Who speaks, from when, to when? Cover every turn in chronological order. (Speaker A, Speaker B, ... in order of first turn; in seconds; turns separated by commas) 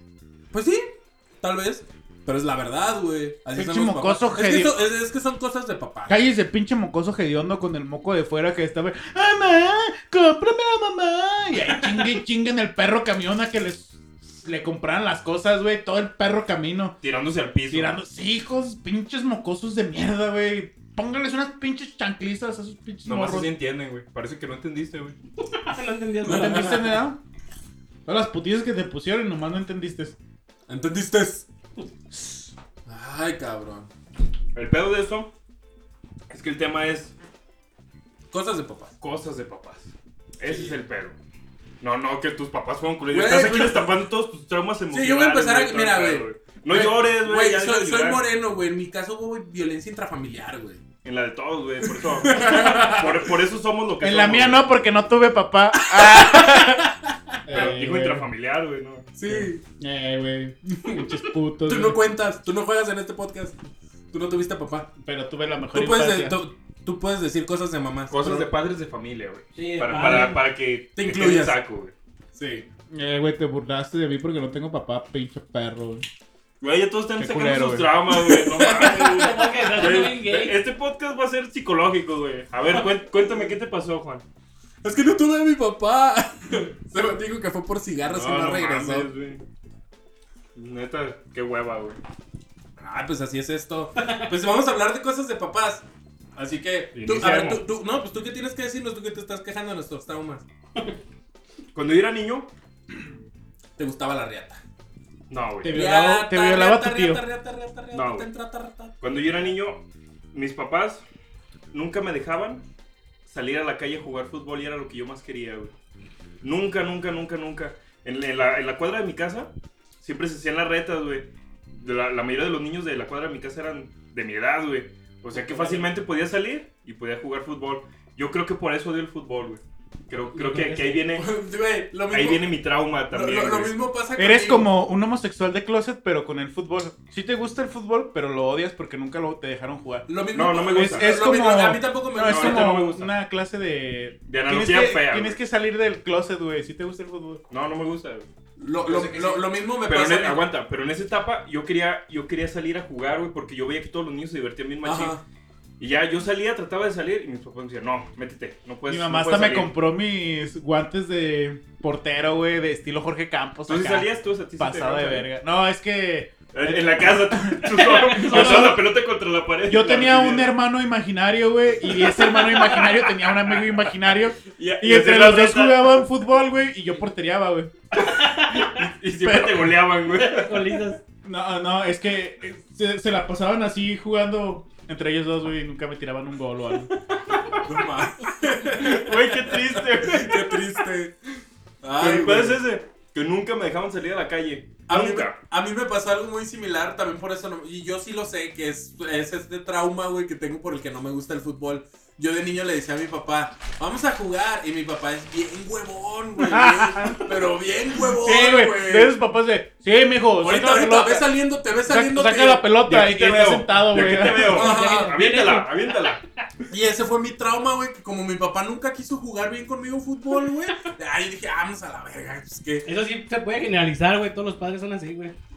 Speaker A: 0.5-6.2, Speaker B: 3.5-4.8, Speaker B: 6.1-17.0, Speaker C: 17.0-17.9, Speaker B: 17.7-23.5, Speaker C: 23.1-25.1, Speaker D: 25.6-27.0, Speaker A: 26.2-26.9, Speaker B: 26.2-27.2, Speaker B: 28.1-30.1, Speaker A: 30.7-31.4, Speaker A: 32.9-33.9, Speaker C: 34.5-35.3, Speaker C: 36.3-37.1, Speaker A: 38.3-38.9, Speaker C: 39.0-41.1, Speaker C: 41.8-48.2, Speaker A: 43.1-43.9, Speaker A: 44.9-50.8, Speaker C: 51.0-54.6, Speaker A: 51.8-53.3, Speaker B: 54.0-56.9, Speaker A: 55.7-57.7, Speaker B: 57.4-58.3, Speaker C: 57.5-59.1, Speaker A: 59.1-59.6, Speaker B: 59.3-62.0, Speaker A: 61.6-63.5, Speaker A: 64.1-64.9, Speaker B: 65.0-66.4, Speaker A: 65.7-68.5, Speaker C: 68.1-71.9, Speaker D: 69.5-70.4, Speaker A: 70.0-70.3, Speaker A: 70.9-71.6, Speaker A: 72.3-72.7, Speaker B: 72.9-76.0, Speaker C: 76.6-84.2, Speaker B: 77.2-77.9, Speaker A: 78.1-79.6, Speaker D: 79.1-80.5, Speaker A: 84.8-89.1, Speaker C: 88.1-89.4, Speaker C: 90.5-92.0, Speaker A: 92.8-95.8, Speaker A: 96.3-100.4, Speaker C: 96.9-97.6, Speaker C: 101.7-102.5, Speaker A: 103.8-104.6, Speaker C: 105.3-105.8, Speaker B: 105.6-107.2, Speaker A: 105.7-108.9, Speaker C: 107.9-108.3, Speaker C: 109.0-111.0, Speaker C: 111.7-112.6, Speaker C: 113.2-115.7, Speaker C: 116.4-131.2, Speaker D: 130.3-131.0, Speaker A: 131.1-134.7, Speaker C: 132.1-133.8, Speaker B: 134.2-140.1, Speaker A: 140.1-142.7, Speaker C: 140.3-141.1, Speaker B: 140.7-147.4, Speaker C: 142.2-143.1, Speaker C: 144.3-145.4, Speaker C: 147.5-148.3, Speaker A: 148.6-150.4, Speaker C: 148.9-155.2, Speaker A: 154.8-155.2, Speaker C: 155.8-159.7, Speaker B: 158.9-168.9, Speaker C: 163.7-165.3, Speaker C: 166.5-170.6, Speaker D: 167.7-168.8, Speaker B: 169.7-177.7, Speaker C: 172.2-176.0, Speaker C: 177.9-180.8, Speaker D: 178.0-178.6, Speaker B: 179.2-179.8, Speaker D: 180.2-181.0, Speaker B: 181.2-186.9, Speaker A: 187.6-191.1, Speaker C: 188.8-190.5, Speaker A: 191.8-192.6, Speaker C: 192.0-195.4, Speaker A: 194.9-209.1, Speaker B: 206.4-207.2, Speaker B: 208.2-214.7, Speaker A: 210.4-212.7, Speaker C: 212.8-216.2, Speaker A: 214.4-215.1, Speaker D: 214.6-216.2, Speaker A: 216.7-222.8, Speaker D: 222.8-225.3